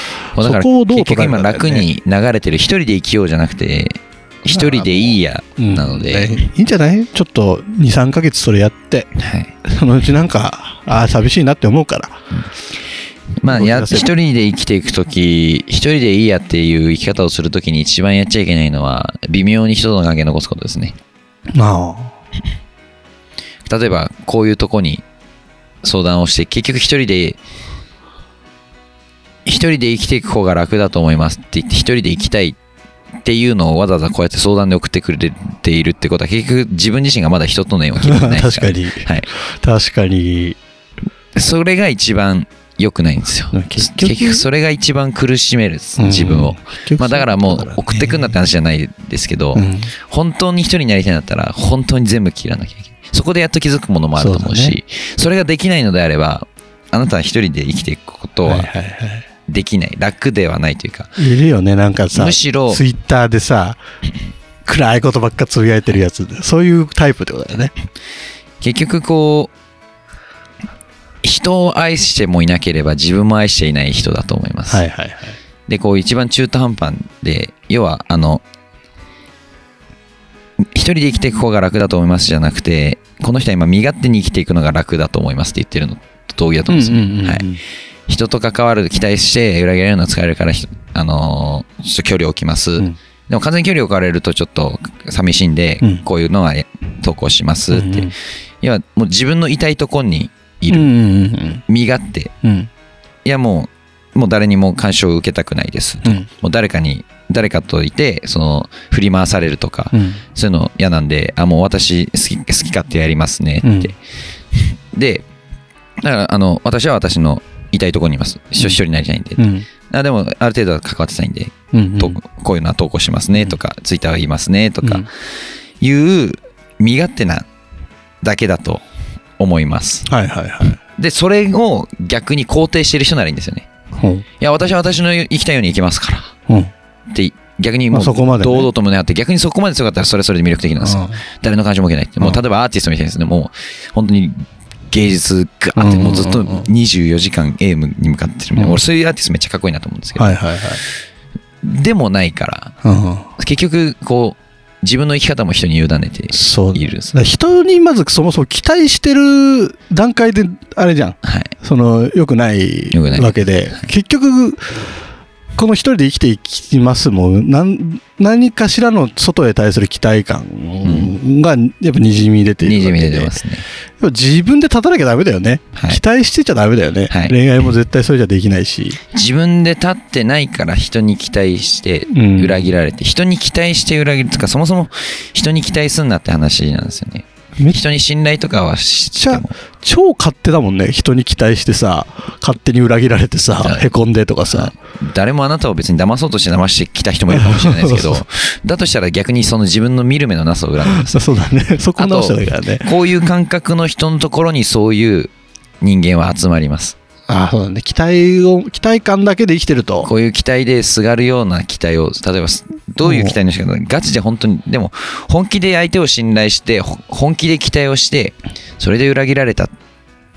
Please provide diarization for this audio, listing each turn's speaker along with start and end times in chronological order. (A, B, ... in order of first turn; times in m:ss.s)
0:00.4-0:06.4 A
0:00.4-0:01.9 B
0:04.5-0:09.1 B
0:09.2-0:09.5 A
0:09.7-0:12.2 B
0:13.4-0:21.0 A
0:13.5-0:14.1 B
0:21.5-0:22.1 B
0:23.6-0:25.0 A
0:25.8-0:27.4 A
0:29.5-0:32.6 A
0:33.2-0:39.3 A
0:38.0-0:39.1 B
0:39.6-0:40.6 B
0:41.4-0:58.7 A
0:43.5-0:44.4 B
0:46.0-0:48.3 B
0:49.6-0:49.9 B
0:54.2-0:54.8 B
0:58.4-0:59.3 B
0:59.5-1:01.1 A
1:01.2-1:03.8 B
1:02.1-1:02.8 A
1:04.7-1:07.7 B
1:08.6-1:09.5 A
1:11.2-1:14.9 A
1:14.7-1:15.4 B
1:15.7-1:18.4 A
1:20.7-1:27.5 A
1:26.7-1:27.6 B
1:28.1-1:40.9 A
1:37.7-1:38.1 B
1:40.7-1:41.6 B
1:41.7-1:42.3 A
1:42.4-1:42.7 B
1:43.2-1:54.0 A
1:49.9-1:50.2 B
1:53.6-1:53.9 B
1:54.6-1:55.2 A
1:56.0-2:05.1 A
1:59.4-1:59.7 B
2:01.7-2:02.2 B
2:04.8-2:05.1 B
2:05.8-2:07.5 A
2:08.2-2:08.8 A
2:09.4-2:10.1 A
2:10.1-2:10.8 B
2:11.0-2:13.7 A
2:14.0-2:14.2 B
2:14.4-2:16.3 A
2:17.1-2:30.4 A
2:17.9-2:18.7 B
2:20.8-2:21.2 B
2:25.8-2:26.7 B
2:28.6-2:28.8 B
2:30.2-2:30.8 B
2:31.6-2:32.7 A
2:32.8-2:33.3 B
2:33.4-2:37.2 A
2:36.3-2:44.7 B
2:41.2-2:41.5 A
2:42.9-2:43.8 A
2:45.6-2:53.3 B
2:50.8-2:51.2 A
2:52.6-2:53.7 A
2:54.0-2:59.0 B
2:55.8-2:56.0 A
2:57.1-2:57.4 A
2:59.1-3:09.5 A
3:02.1-3:02.7 B
3:09.2-3:14.7 B
3:13.6-3:13.9 A
3:14.5-3:21.2 A
3:17.3-3:18.2 B
3:20.8-3:22.9 B
3:22.0-3:27.0 A
3:27.3-3:30.1 B
3:30.0-3:39.7 A
3:33.0-3:33.4 B